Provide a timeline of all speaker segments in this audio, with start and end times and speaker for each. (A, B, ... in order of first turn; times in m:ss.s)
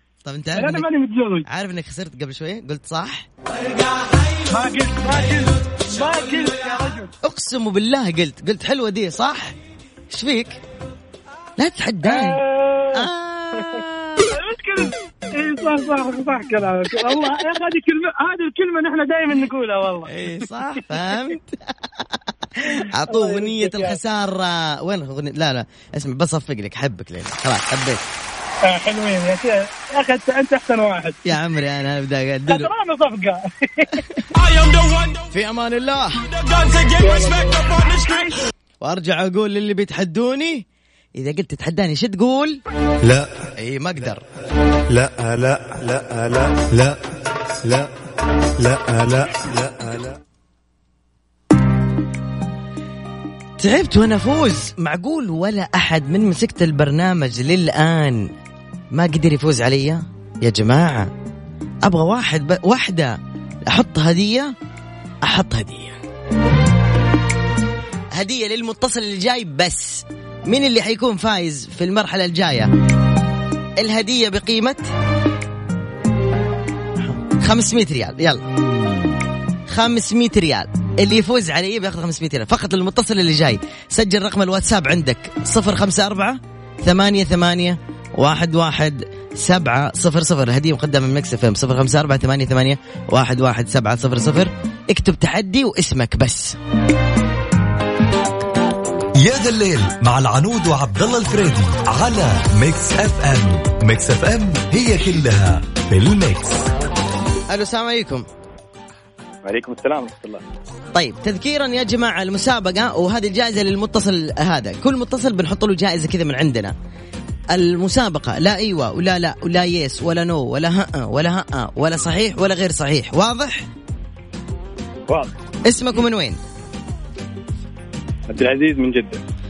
0:00.2-0:00.9 A
0:00.6-0:01.5 B
0:01.5-0:03.3 A
0:04.5-0:07.1 B
0:07.2-0:09.6 A
0:10.1-0:10.6 A
0:11.6-0:14.2 A
0:12.0-0:13.6 B
0:14.2-0:20.1 B
0:20.1-0:28.0 A
0:23.1-0:24.0 B
0:28.7-0:31.2 B
0:31.2-0:32.7 A
0:32.5-0:34.0 B
0:35.3-0:36.2 A
0:37.0-0:37.8 B
0:38.8-0:40.6 A
0:41.2-0:42.6 A
0:43.0-0:43.4 C
0:43.6-0:44.2 A
0:44.9-0:47.0 C
0:47.6-0:47.9 C
0:48.6-0:50.2 C
0:53.6-0:58.3 A
0:58.9-1:01.1 A
1:01.8-1:04.5 A
1:05.2-1:06.0 A
1:08.1-1:12.7 A
1:13.8-1:14.9 A
1:17.0-1:18.4 A
1:19.7-1:36.6 A
1:39.2-1:46.6 D
1:47.5-1:48.3 A
1:49.4-1:50.4 E
1:50.9-1:56.7 A
1:57.5-2:03.7 A
2:05.6-2:06.4 A
2:08.3-2:09.2 E